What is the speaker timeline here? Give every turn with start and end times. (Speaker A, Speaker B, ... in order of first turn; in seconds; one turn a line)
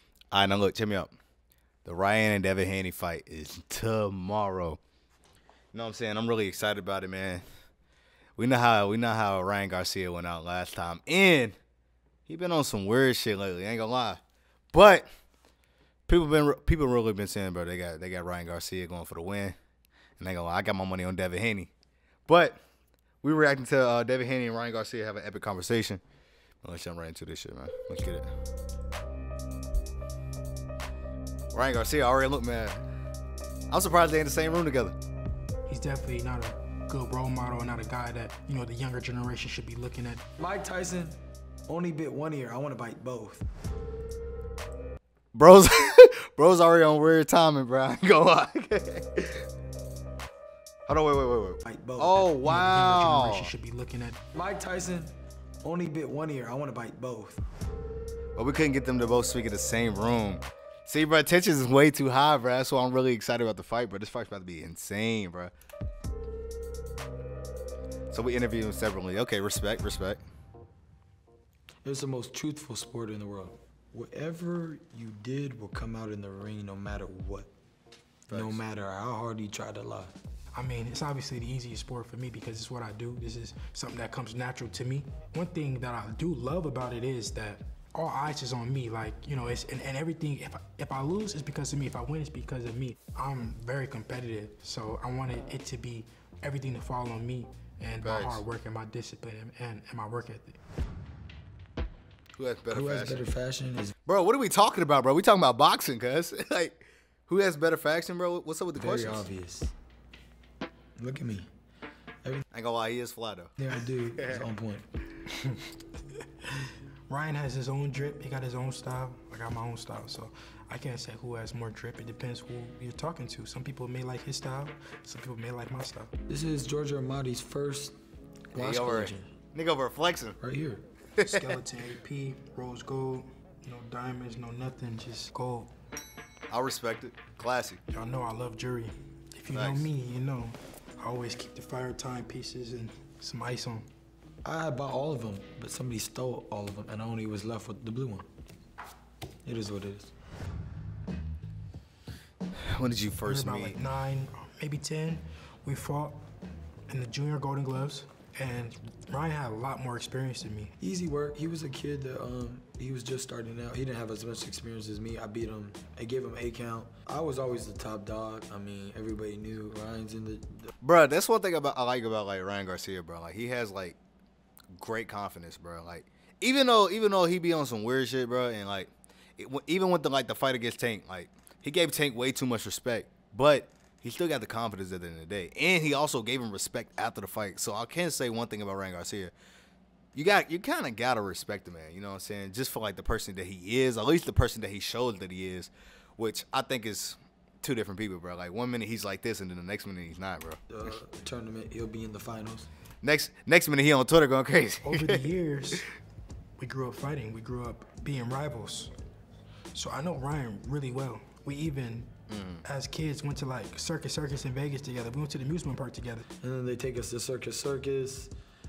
Speaker A: 0.3-1.1
Speaker A: 1.8-4.8
Speaker A: 5.7-7.4
Speaker A: 8.3-11.5
Speaker A: 12.3-14.2
Speaker A: 14.7-15.1
Speaker A: 16.1-19.6
Speaker A: 20.2-21.7
Speaker A: 22.3-22.6
Speaker A: 23.2-26.0
Speaker A: 26.6-28.3
Speaker A: 31.5-32.8
Speaker A: 33.7-34.9
Speaker B: 35.7-40.2
Speaker C: 40.4-43.4
Speaker A: 45.3-49.5
Speaker A: 50.9-53.5
Speaker C: 51.6-52.3
Speaker B: 52.4-54.2
Speaker C: 54.3-57.4
Speaker A: 58.4-65.5
Speaker A: 68.1-70.2
Speaker C: 71.8-77.5
Speaker C: 78.3-80.1
Speaker A: 78.3-78.6
Speaker B: 80.5-100.6
Speaker A: 98.0-98.4
Speaker A: 102.4-103.2
Speaker C: 102.7-103.9
Speaker A: 104.0-109.3
Speaker C: 108.8-109.7
Speaker C: 111.0-111.5
Speaker A: 112.5-113.5
Speaker C: 113.6-114.8
Speaker A: 114.2-114.4
Speaker B: 115.3-115.7
Speaker B: 116.6-126.1
Speaker C: 126.3-128.0
Speaker A: 128.5-130.4
Speaker C: 128.5-129.3
Speaker C: 130.4-130.8
Speaker B: 131.2-135.7
Speaker A: 136.5-137.8
Speaker B: 137.9-143.9
Speaker A: 139.5-139.9
Speaker C: 144.4-148.3
Speaker C: 149.4-150.1
Speaker A: 152.7-153.7
Speaker B: 153.2-156.2
Speaker B: 156.9-160.7
Speaker C: 160.8-170.7
Speaker A: 170.8-174.0
Speaker A: 174.7-189.3
Speaker A: 190.1-200.6
Speaker C: 200.7-202.7
Speaker A: 203.0-205.2
Speaker B: 204.8-205.9
Speaker B: 206.6-208.9
Speaker B: 209.7-212.1
Speaker A: 212.3-212.6
Speaker B: 212.6-216.2
Speaker C: 216.4-218.3